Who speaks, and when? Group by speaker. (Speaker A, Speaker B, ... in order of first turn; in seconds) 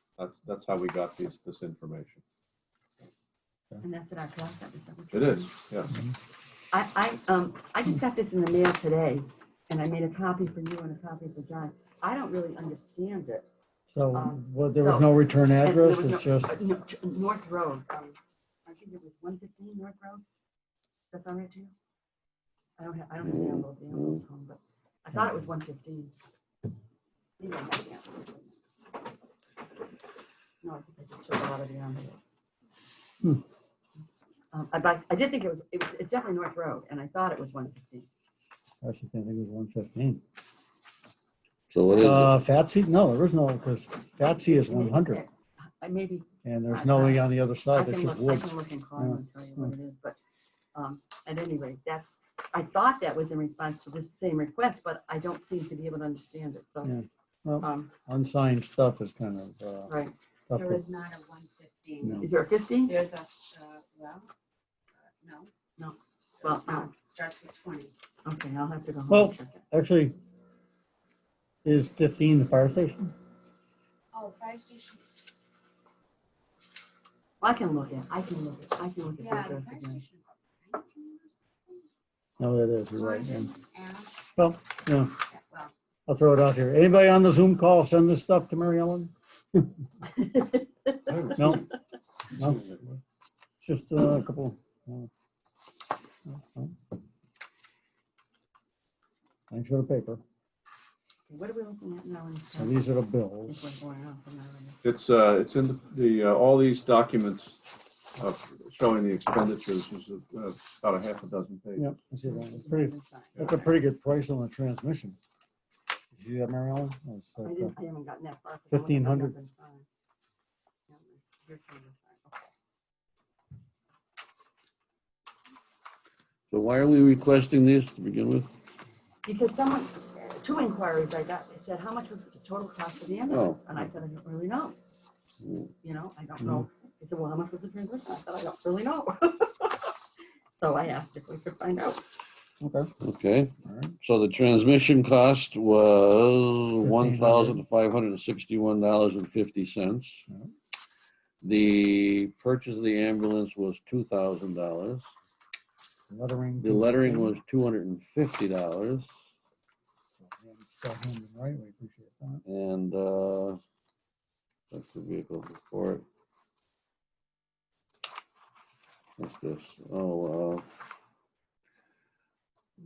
Speaker A: 0.2-2.2, 5.1-5.9, 91.1-91.7, 92.5-92.8, 104.8-111.9
Speaker B: 3.8-5.5, 6.7-13.4, 14.1-20.2, 21.1-21.7, 22.8-26.1, 27.4-28.6, 30.6-32.2, 34.5-38.1, 44.2-50.2, 50.7-56.9, 57.6-57.9, 59.9-60.1, 62.2-63.0, 65.8-66.9, 68.2-69.6, 77.4-80.0, 90.2-90.6, 101.3-102.9, 103.5-104.8, 112.2-113.7, 117.4-119.8, 120.9-122.5, 129.2-134.8, 135.8-139.9, 140.5-142.0
Speaker C: 13.9-16.6, 38.8-40.2, 42.0-45.2, 46.4-49.7, 56.8-59.9, 60.5-60.9, 69.1-70.2, 71.6-73.1, 82.4-83.5, 84.3-85.2, 86.1-89.7, 91.3-91.7, 92.3-92.9, 93.6-95.1, 96.2-96.7, 99.5-100.2, 102.5-103.8, 111.8-115.2, 116.1-117.7, 118.7-119.3, 136.4-136.6, 142.6-142.9, 143.6-143.9, 146.8-147.6, 156.1-157.4, 160.2-162.4
Speaker D: 23.2-24.2, 41.7-42.4, 126.5-128.5, 133.3-133.9, 135.4-135.7, 143.0-150.2, 151.4-155.1, 156.6-159.1, 162.4-163.6, 164.7-166.0, 169.2-170.7
Speaker E: 61.4-62.1, 63.0-64.3, 66.9-67.9, 74.1-75.0, 79.5-81.2, 83.0-84.1